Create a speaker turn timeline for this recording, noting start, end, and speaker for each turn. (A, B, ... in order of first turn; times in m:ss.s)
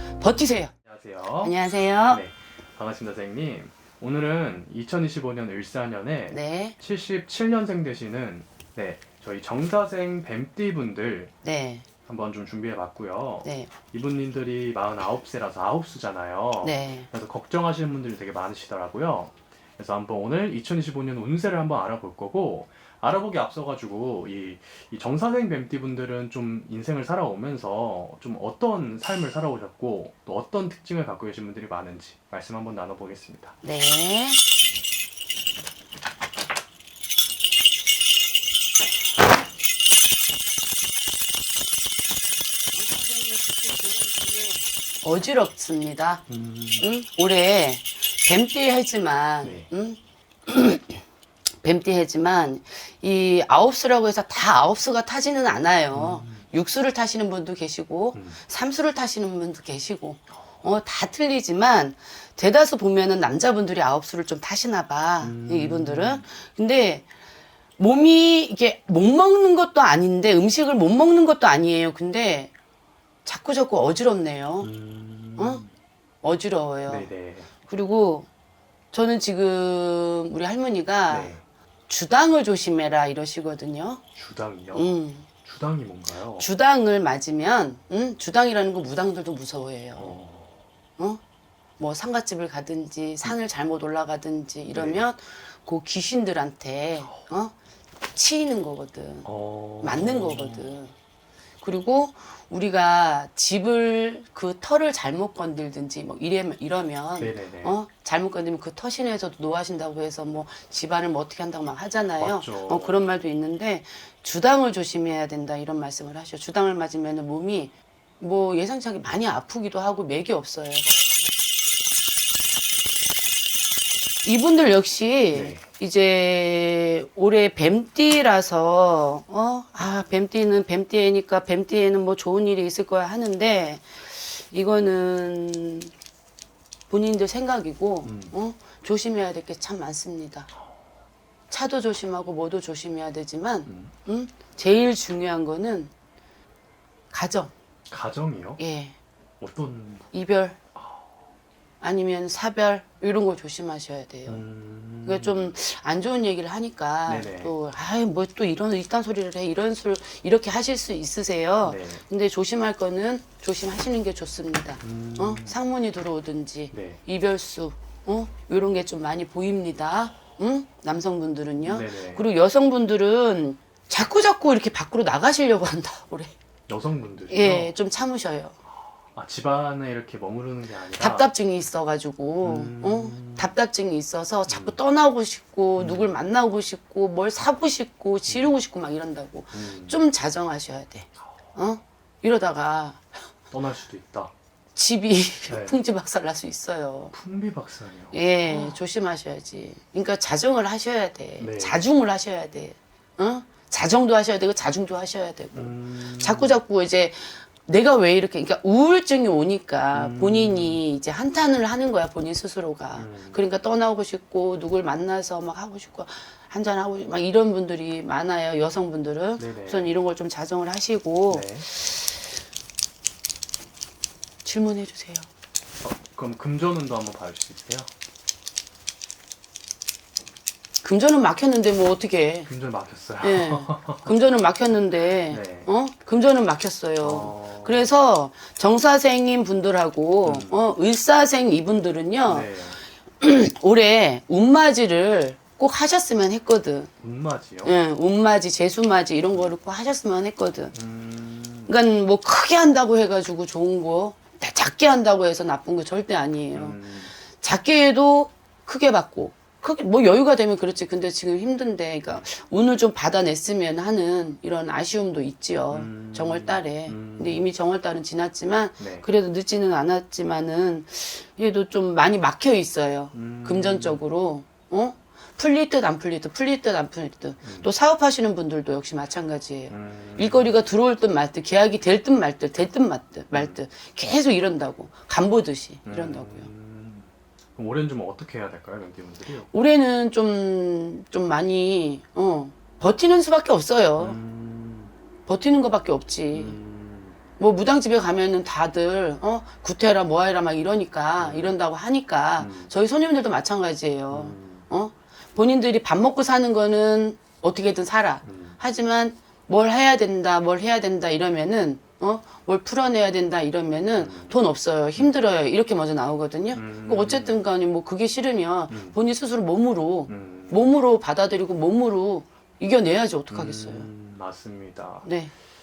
0:00.2-0:00.7 A
0:00.8-0:01.6 B
0:01.4-0:02.2 A
0:02.1-0:11.3 B
0:06.3-0:06.8 A
0:11.4-0:11.9 A
0:12.1-0:33.6 B
0:13.4-0:13.7 A
0:16.6-0:17.1 A
0:33.6-0:34.4 A
0:42.7-0:46.2 A
0:46.3-0:46.8 B
0:46.8-0:51.0 A
0:49.4-0:49.7 B
0:51.6-1:07.1 A
0:55.9-0:56.4 B
0:58.1-0:58.4 B
1:05.2-1:06.2 B
1:07.8-1:12.5 A
1:13.2-1:14.7 A
1:14.6-1:15.7 B
1:15.4-1:15.6 A
1:16.2-1:17.1 A
1:16.9-1:17.5 B
1:17.6-1:18.3 A
1:18.9-1:21.4 A
1:21.1-1:21.4 B
1:21.9-1:24.0 A
1:24.2-1:26.5 B
1:24.7-1:25.3 A
1:26.4-1:30.2 A
1:30.0-1:30.6 B
1:31.8-1:37.5 A
1:34.7-1:35.0 B
1:38.1-1:39.3 A
1:39.2-1:40.8 B
1:39.8-1:40.9 A
1:41.6-2:00.9 A
1:47.2-1:47.8 B
1:52.2-1:53.0 B
2:04.2-2:15.9 A
2:05.3-2:05.7 B
2:16.9-2:20.5 A
2:18.0-2:18.3 B
2:21.5-2:25.9 A
2:23.7-2:23.9 B
2:27.1-2:27.5 A
2:27.9-2:28.6 B
2:28.6-2:29.0 A
2:29.4-2:30.1 B
2:30.1-2:30.6 A
2:30.8-2:31.0 B
2:31.8-2:34.4 A
2:34.3-2:35.5 B
2:35.0-2:56.3 A
2:37.1-2:37.6 B
2:41.6-2:42.0 B
2:44.8-2:45.6 B
2:46.7-2:47.0 B
2:51.6-2:52.2 B
2:56.7-2:57.7 B
2:57.3-2:58.6 A
2:59.1-3:01.3 B
3:01.0-3:13.2 A
3:02.4-3:03.5 B
3:04.5-3:04.8 B
3:05.8-3:06.1 B
3:09.5-3:10.0 B
3:13.5-3:14.3 B
3:14.8-3:17.1 A
3:15.5-3:15.8 B
3:17.1-3:18.8 B
3:18.1-3:42.0 A
3:21.4-3:21.9 B
3:25.5-3:26.6 B
3:29.9-3:30.8 B
3:33.0-3:33.4 B
3:39.4-3:39.9 B
3:41.3-3:41.7 B
3:44.4-3:45.3 A
3:45.8-3:47.9 B
3:50.8-3:52.5 A
3:52.5-3:54.1 B
3:53.2-4:02.5 A
3:55.3-3:55.7 B
3:57.0-3:57.9 B
4:00.2-4:00.6 B
4:02.3-4:02.8 B
4:03.2-4:06.9 A
4:07.0-4:07.8 B
4:07.6-4:10.8 A
4:10.7-4:11.7 B
4:11.7-4:16.8 A
4:16.5-4:17.1 B
4:17.3-4:46.5 A
4:25.7-4:27.5 B
4:28.8-4:29.1 B
4:33.1-4:34.0 B
4:37.4-4:37.7 B
4:39.7-4:40.6 B
4:43.3-4:43.6 B
4:45.8-4:49.5 B
4:49.5-4:54.2 A
4:54.0-4:54.9 B
4:55.3-4:56.6 A
4:56.3-4:57.2 B
4:57.4-5:23.9 A
5:01.2-5:01.6 B
5:02.4-5:02.7 B
5:04.1-5:04.7 B
5:08.2-5:08.6 B
5:14.0-5:14.3 B
5:16.5-5:17.4 B
5:18.7-5:19.0 B
5:20.1-5:20.6 B
5:23.3-5:25.1 B
5:25.0-5:25.3 A